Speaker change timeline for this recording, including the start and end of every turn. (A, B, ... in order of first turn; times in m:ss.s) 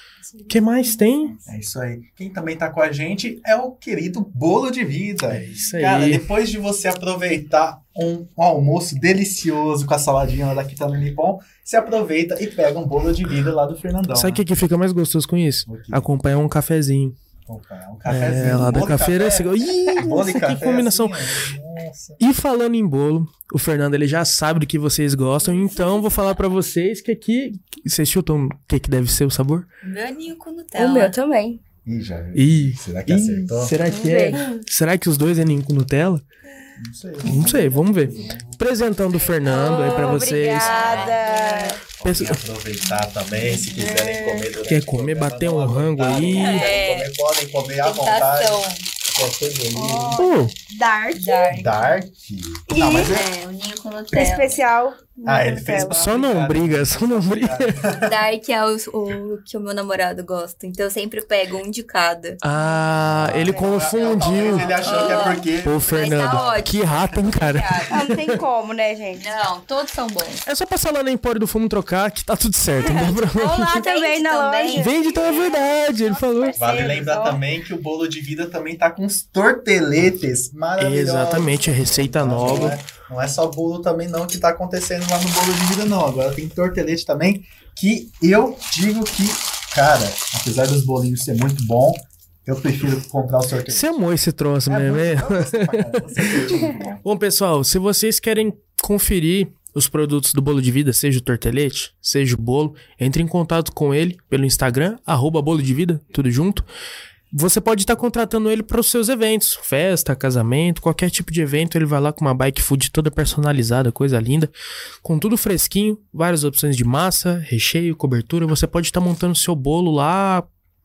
0:00.5-0:01.4 A
0:01.4-0:14.4 B
0:05.3-0:06.2 A
0:14.1-0:17.2 A
0:15.6-0:16.1 B
0:17.4-0:22.2 B
0:18.1-0:21.2 A
0:22.2-0:29.6 A
0:29.8-0:31.1 C
0:30.8-0:31.6 D
0:31.8-0:33.7 B
0:32.3-0:36.2 A
0:33.8-0:34.6 D
0:36.8-0:38.6 B
0:37.2-0:41.0 A
0:39.2-0:41.8 C
0:39.4-0:41.8 D
0:42.0-0:50.3 B
0:42.0-0:42.4 A
0:43.4-0:44.5 D
0:44.7-0:46.7 A
0:46.3-0:47.1 C
0:47.8-0:48.8 C
0:49.7-0:50.3 D
0:50.2-0:50.5 A
0:50.7-0:51.9 C
0:51.1-0:51.7 D
0:51.5-0:53.3 B
0:52.7-0:53.2 D
0:52.9-0:54.6 C
0:54.1-0:56.1 D
0:55.2-0:58.1 B
0:55.9-0:58.0 A
0:57.9-1:02.4 C
1:02.4-1:08.4 A
1:02.9-1:06.6 B
1:03.5-1:05.2 D
1:04.7-1:07.9 C
1:07.9-1:09.3 D
1:09.2-1:10.4 C
1:10.4-1:13.8 A
1:12.8-1:17.1 D
1:13.4-1:15.8 C
1:14.7-1:16.6 A
1:16.5-1:17.4 C
1:16.6-1:33.8 B
1:20.8-1:22.8 A
1:33.7-1:46.6 A
1:34.7-1:37.0 B
1:47.3-1:54.5 A
1:55.0-2:00.4 A